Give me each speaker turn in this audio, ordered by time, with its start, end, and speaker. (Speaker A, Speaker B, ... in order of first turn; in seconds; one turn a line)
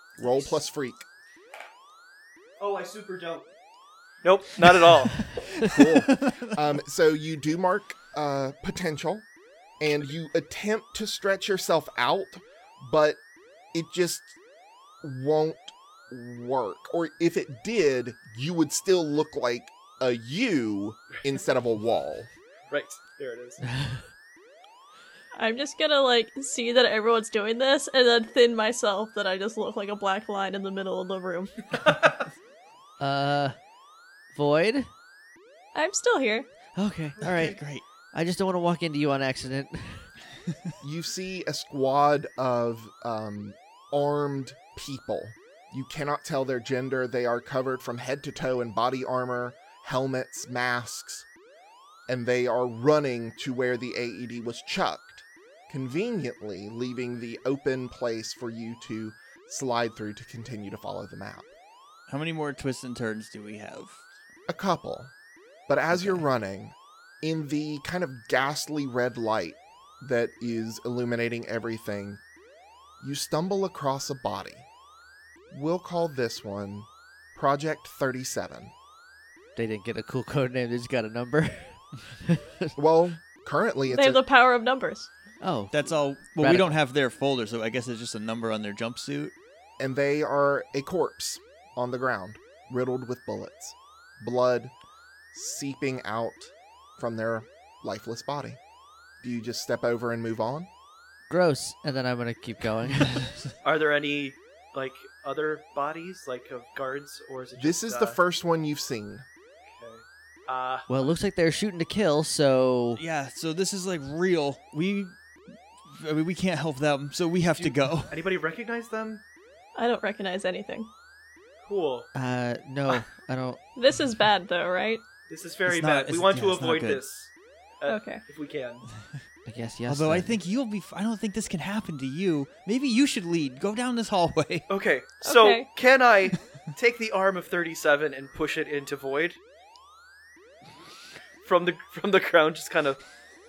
Speaker A: 0.2-1.1
Speaker B: 2.6-3.5
Speaker B: 4.2-5.3
Speaker A: 5.6-9.2
Speaker C: 5.7-6.5
Speaker A: 9.8-13.2
Speaker A: 13.7-14.3
Speaker A: 15.0-22.3
Speaker B: 22.7-23.6
Speaker D: 23.7-24.0
Speaker E: 25.4-31.5
Speaker B: 31.7-32.2
Speaker D: 33.0-33.5
Speaker D: 34.3-34.9
Speaker E: 35.7-36.5
Speaker D: 36.8-37.6
Speaker B: 37.2-37.6
Speaker C: 37.2-37.8
Speaker D: 38.1-40.1
Speaker A: 40.8-51.2
Speaker A: 52.1-61.5
Speaker C: 62.1-64.0
Speaker A: 64.5-65.1
Speaker A: 65.7-72.2
Speaker A: 73.0-74.7
Speaker A: 75.5-78.7
Speaker D: 79.5-82.7
Speaker A: 82.8-84.2
Speaker E: 83.9-85.1
Speaker D: 85.4-86.8
Speaker C: 85.7-89.3
Speaker A: 89.8-94.7
Speaker A: 95.3-98.6
Speaker A: 99.2-100.7
Speaker D: 101.3-103.3
Speaker B: 103.6-108.2
Speaker A: 107.6-109.2
Speaker B: 109.6-110.9
Speaker D: 110.9-113.0
Speaker C: 112.9-115.2
Speaker C: 115.8-118.3
Speaker B: 117.6-119.2
Speaker E: 119.8-120.9
Speaker B: 121.6-122.1
Speaker D: 122.1-123.6
Speaker E: 123.8-125.0
Speaker B: 125.3-128.8
Speaker C: 125.7-127.0
Speaker E: 127.8-128.2
Speaker D: 129.4-130.3
Speaker C: 129.9-134.7
Speaker B: 134.7-139.4
Speaker E: 135.2-135.7
Speaker B: 141.4-143.0